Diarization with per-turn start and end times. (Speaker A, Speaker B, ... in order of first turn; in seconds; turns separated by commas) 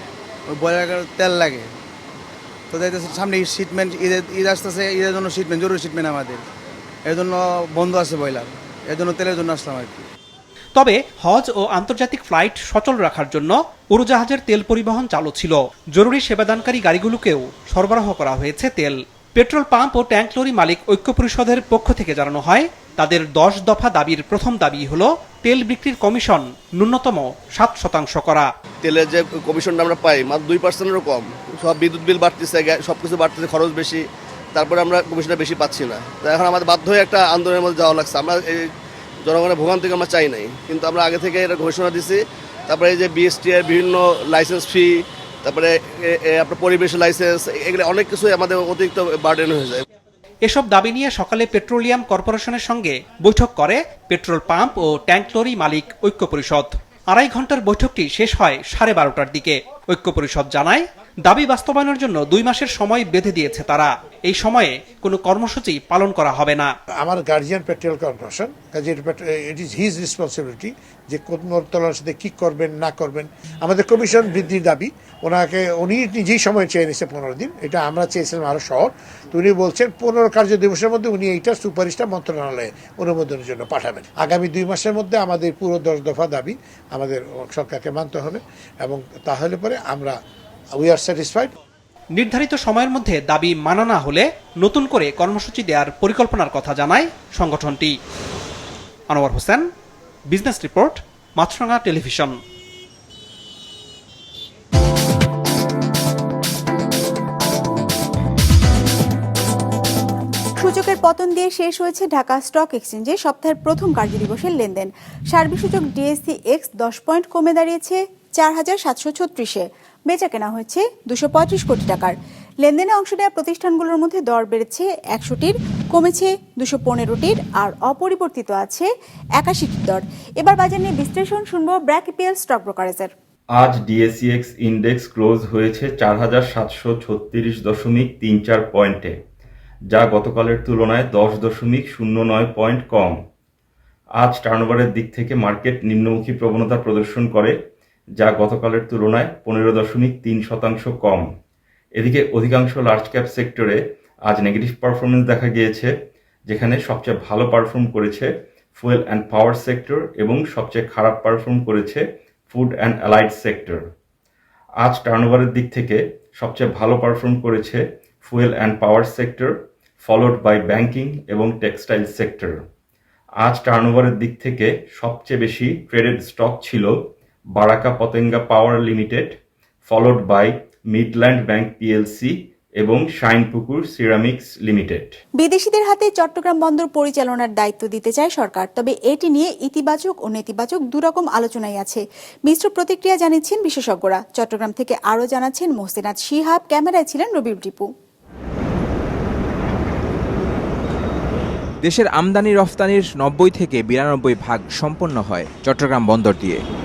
Speaker A: 0.5-1.7, Speaker A: 2.7-6.4, Speaker A: 7.1-10.1, Speaker B: 10.8-28.5, Speaker C: 28.8-34.0, Speaker C: 34.5-38.6, Speaker C: 39.2-49.8, Speaker B: 50.5-66.7, Speaker D: 67.0-90.2, Speaker D: 90.8-91.5, Speaker B: 92.2-97.9, Speaker B: 99.1-99.7, Speaker B: 100.3-102.3, Speaker E: 110.6-128.9, Speaker E: 129.4-133.1, Speaker F: 133.6-139.2, Speaker F: 139.9-143.2, Speaker F: 144.2-147.6, Speaker F: 148.2-151.3, Speaker F: 151.9-155.9, Speaker F: 156.5-163.8, Speaker F: 164.8-172.6, Speaker F: 173.4-176.9, Speaker F: 177.6-185.1, Speaker E: 185.4-197.9, Speaker G: 201.8-206.6